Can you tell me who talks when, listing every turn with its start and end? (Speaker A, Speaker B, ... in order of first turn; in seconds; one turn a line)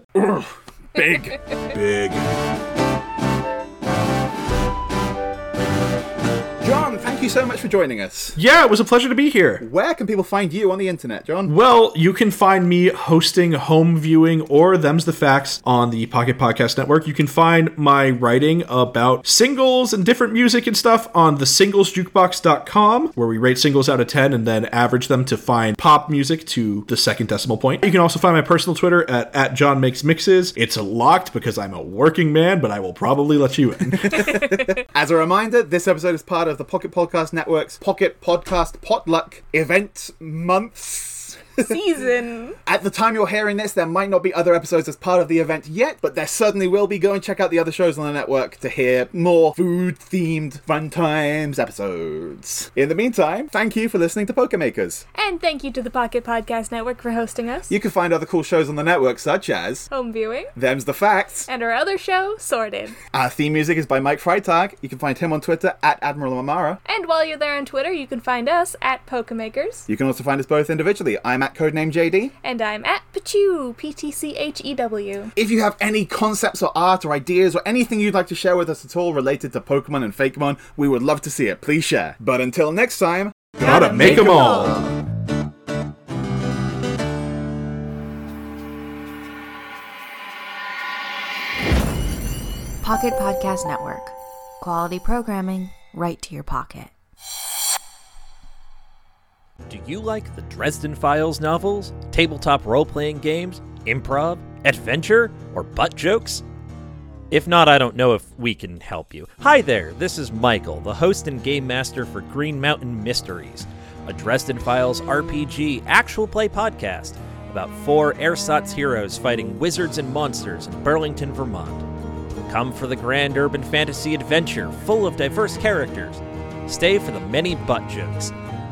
Speaker A: 0.1-1.4
Speaker B: 1.7-2.2
Speaker A: 6.6-8.4
Speaker B: 8.3-9.6
Speaker A: 9.6-11.5
Speaker B: 11.4-34.2
Speaker A: 33.9-41.7
Speaker C: 41.6-42.5
Speaker A: 42.6-55.0
Speaker C: 55.1-57.7
Speaker A: 57.7-59.9
Speaker C: 59.9-60.5
Speaker A: 60.5-61.5
Speaker C: 61.5-63.0
Speaker A: 63.1-66.8
Speaker C: 66.8-69.8
Speaker A: 69.9-72.3
Speaker C: 72.4-75.3
Speaker A: 75.3-84.4
Speaker B: 83.6-84.8
Speaker C: 83.6-84.9
Speaker D: 92.8-96.9
Speaker E: 99.7-106.4
Speaker E: 107.3-121.8
Speaker E: 122.4-128.3